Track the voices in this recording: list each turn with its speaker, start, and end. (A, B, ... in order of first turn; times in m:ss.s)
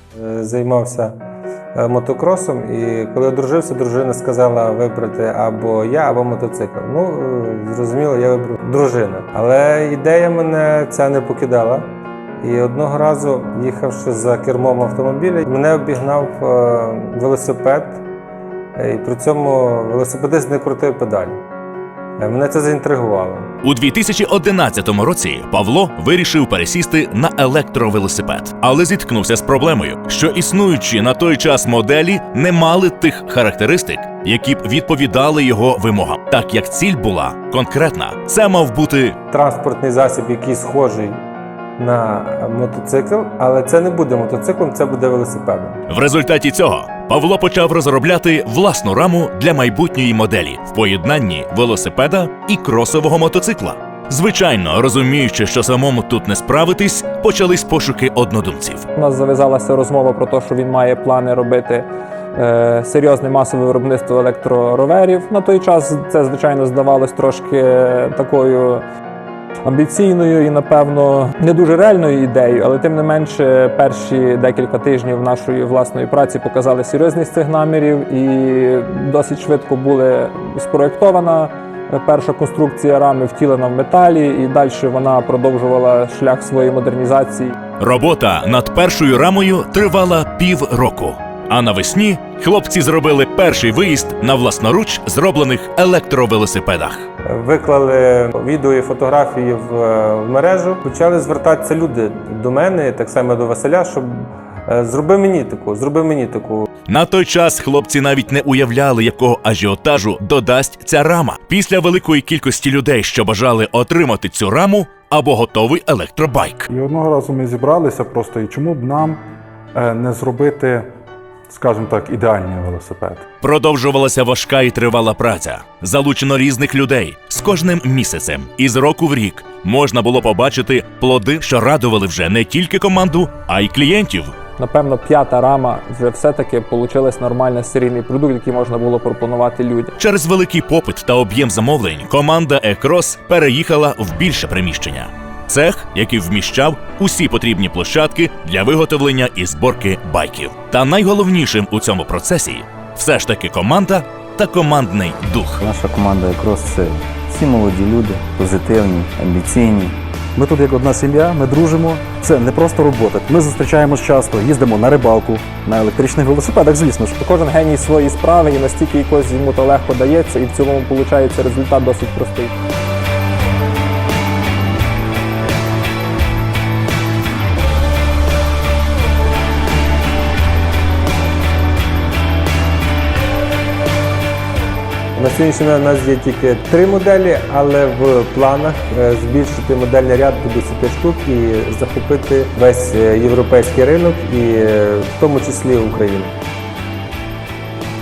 0:00.2-0:01.1 A
0:01.8-0:11.9 A
0:12.4-0:18.0 A
0:18.8-0:21.4 A
0:22.2-0:23.5 A
0:23.6-0:39.2 B
0:39.3-0:41.2 A
0:41.8-0:45.8 A
0:45.9-0:58.9 B
0:59.0-1:08.8 C
1:09.6-1:27.6 C
1:27.8-1:37.1 B
1:37.3-1:46.7 A
1:46.9-1:56.7 B
1:56.7-2:00.9 D
2:01.5-2:03.2 D
2:03.4-2:14.4 B
2:14.6-2:20.0 C
2:20.0-2:35.6 B
2:35.6-2:40.0 E
2:40.4-2:47.2 F
2:47.2-2:52.6 C
3:05.2-3:16.4 A